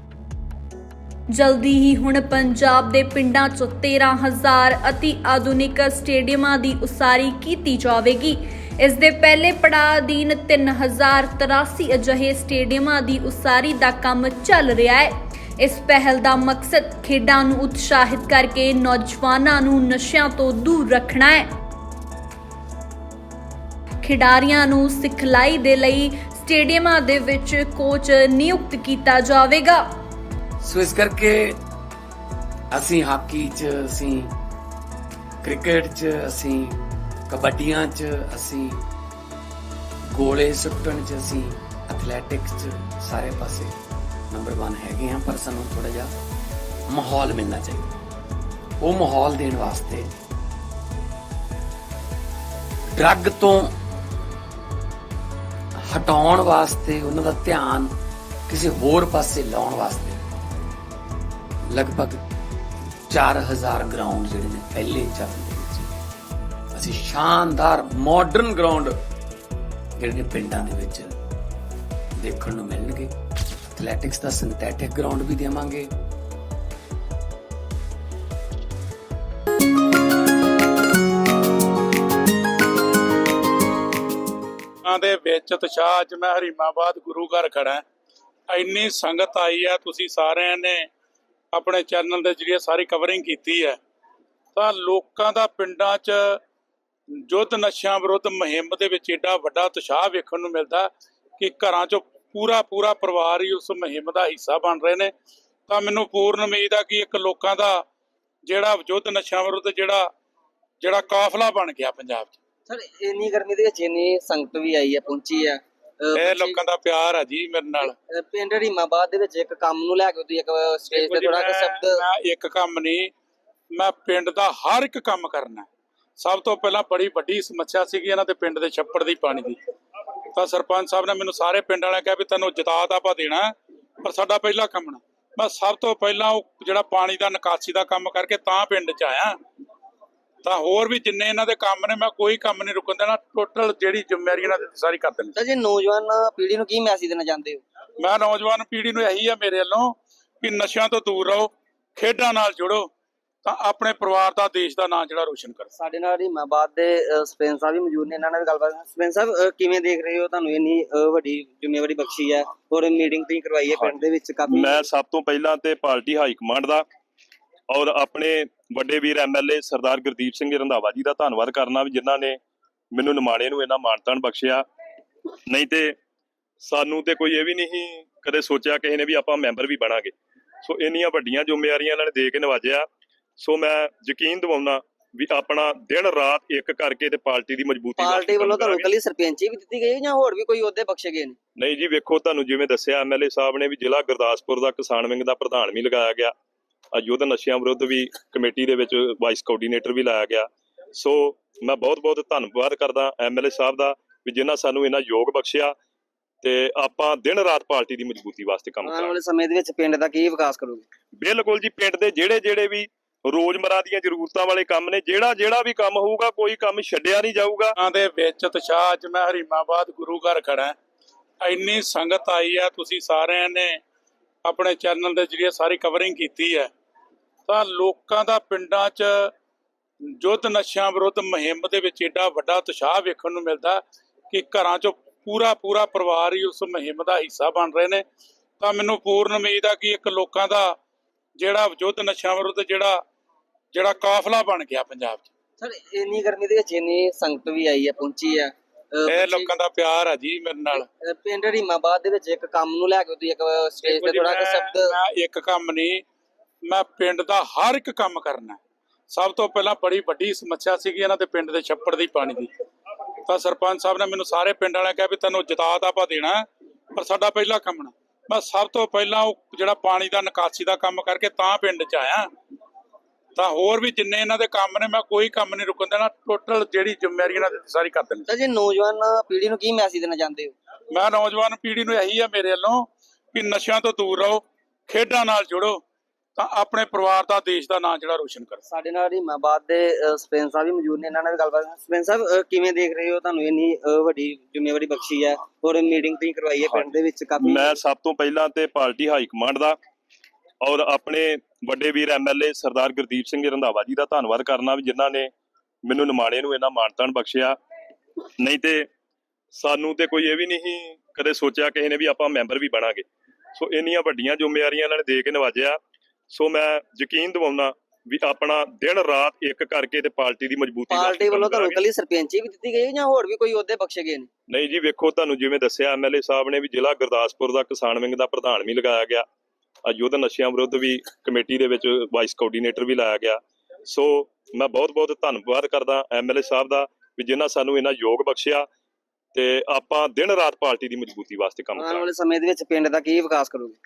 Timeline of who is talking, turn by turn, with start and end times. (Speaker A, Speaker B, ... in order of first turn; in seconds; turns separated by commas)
Speaker A: 1.3-21.5, Speaker A: 24.0-29.8, Speaker B: 30.6-31.6, Speaker B: 32.7-34.3, Speaker B: 35.4-38.8, Speaker B: 40.1-43.7, Speaker B: 44.3-46.1, Speaker B: 46.9-47.9, Speaker B: 48.8-50.1, Speaker B: 52.9-53.7, Speaker B: 55.8-57.9, Speaker B: 58.5-60.2, Speaker B: 61.7-62.2, Speaker B: 63.1-65.9, Speaker B: 66.7-69.0, Speaker B: 70.0-71.2, Speaker B: 72.2-73.1, Speaker B: 73.7-75.9, Speaker C: 84.8-87.8, Speaker C: 88.5-90.9, Speaker C: 91.5-93.8, Speaker C: 94.5-96.4, Speaker C: 97.3-105.1, Speaker C: 105.7-107.8, Speaker C: 108.5-110.1, Speaker C: 110.8-112.3, Speaker D: 112.7-116.6, Speaker C: 116.1-117.9, Speaker D: 117.9-122.0, Speaker C: 120.9-123.1, Speaker C: 123.7-125.7, Speaker C: 126.2-129.6, Speaker C: 130.3-139.3, Speaker C: 140.4-145.3, Speaker D: 145.3-147.6, Speaker C: 148.0-152.9, Speaker C: 153.4-155.7, Speaker D: 155.7-164.8, Speaker E: 163.7-166.8, Speaker E: 167.7-172.4, Speaker E: 172.9-174.6, Speaker E: 175.5-175.9, Speaker E: 176.6-182.9, Speaker E: 183.4-188.9, Speaker D: 188.0-191.3, Speaker E: 191.6-196.3, Speaker E: 196.9-205.7, Speaker E: 206.4-209.2, Speaker D: 208.8-210.8, Speaker E: 211.2-217.8, Speaker C: 217.8-220.8, Speaker C: 221.4-223.8, Speaker C: 224.4-226.7, Speaker C: 227.5-229.3, Speaker C: 230.2-238.0, Speaker C: 238.6-240.7, Speaker C: 241.4-243.0, Speaker C: 243.7-245.2, Speaker D: 245.6-249.5, Speaker C: 249.1-250.9, Speaker D: 251.0-254.9, Speaker C: 253.8-256.0, Speaker C: 256.7-258.6, Speaker C: 259.1-262.5, Speaker C: 263.2-272.3, Speaker C: 273.3-278.3, Speaker D: 278.3-280.5, Speaker C: 280.9-285.8, Speaker C: 286.4-288.6, Speaker D: 288.6-297.7, Speaker E: 296.6-299.8, Speaker E: 300.6-305.3, Speaker E: 305.8-307.6, Speaker E: 308.4-308.9, Speaker E: 309.5-315.8, Speaker E: 316.3-321.8, Speaker D: 320.9-324.3, Speaker E: 324.5-329.2, Speaker E: 329.9-338.7, Speaker E: 339.3-342.1, Speaker D: 341.8-343.8